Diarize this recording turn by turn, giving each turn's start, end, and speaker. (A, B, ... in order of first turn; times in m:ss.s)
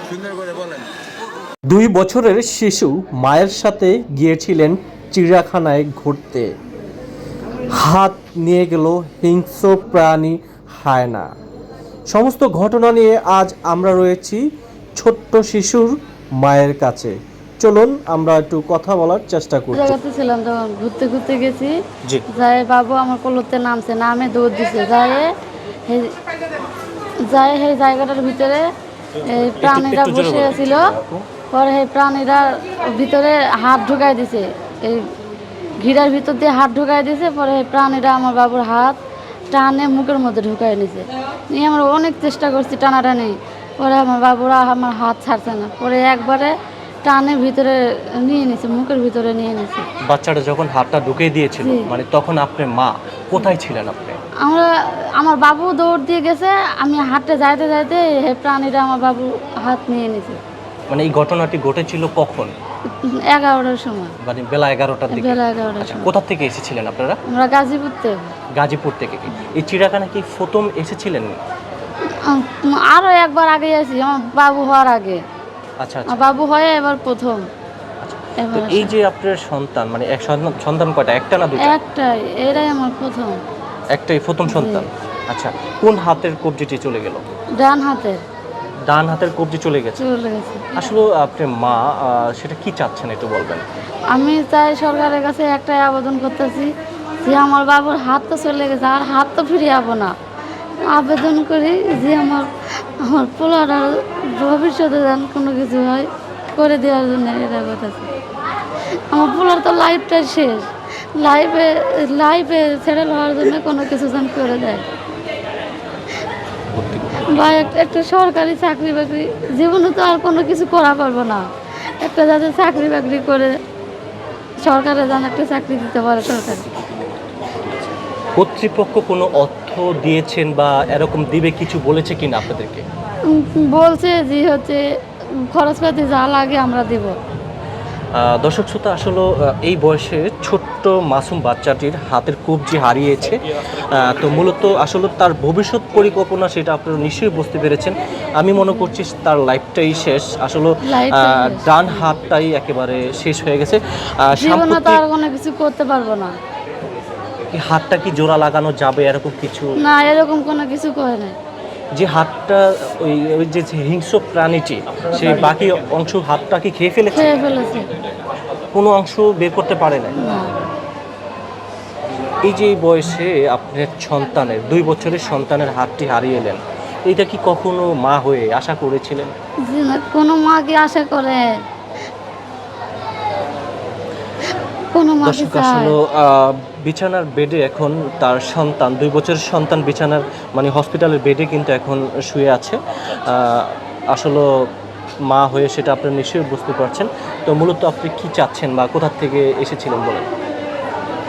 0:01.7-0:06.5 A
0:07.7-0:11.3 A
0:12.1-0:14.4 A
0:15.0-0:20.0 A
0:19.7-0:21.7 B
0:22.3-0:25.3 B
0:25.9-0:26.1 B
0:27.2-0:28.7 B
0:29.2-0:30.9 B
0:29.6-0:31.3 A
0:31.5-0:35.1 B
0:35.8-0:39.0 B
0:39.5-0:49.9 B
0:50.0-0:54.2 A
0:51.6-0:51.9 B
0:54.4-1:00.4 B
1:00.9-1:02.5 A
1:02.9-1:04.1 B
1:04.2-1:07.2 A
1:05.1-1:06.1 B
1:07.3-1:08.3 B
1:08.6-1:11.3 A
1:12.2-1:15.2 B
1:15.8-1:16.2 A
1:16.1-1:17.5 B
1:18.0-1:21.7 A
1:18.4-1:18.9 B
1:21.6-1:23.4 B
1:23.9-1:27.2 A
1:24.5-1:24.8 B
1:27.6-1:28.2 B
1:28.9-1:30.0 A
1:30.0-1:30.7 B
1:30.8-1:33.6 A
1:34.1-1:36.7 B
1:37.2-1:40.2 B
1:40.9-1:48.1 B
1:49.1-1:54.8 B
1:56.8-1:57.6 A
1:57.2-2:01.5 B
2:02.0-2:03.6 B
2:04.6-2:06.7 B
2:08.4-2:12.8 A
2:13.3-2:14.8 B
2:15.5-2:17.2 B
2:18.2-2:35.0 A
2:28.6-2:28.9 B
2:30.8-2:32.1 B
2:34.4-2:36.4 B
2:37.5-2:39.7 A
2:39.8-2:41.4 B
2:41.9-2:47.3 A
2:47.1-2:47.9 B
2:48.7-2:50.2 A
2:50.2-2:50.6 B
2:52.4-2:59.3 A
2:59.6-3:01.4 B
3:04.9-3:06.0 B
3:05.2-3:14.5 A
3:15.3-3:20.3 A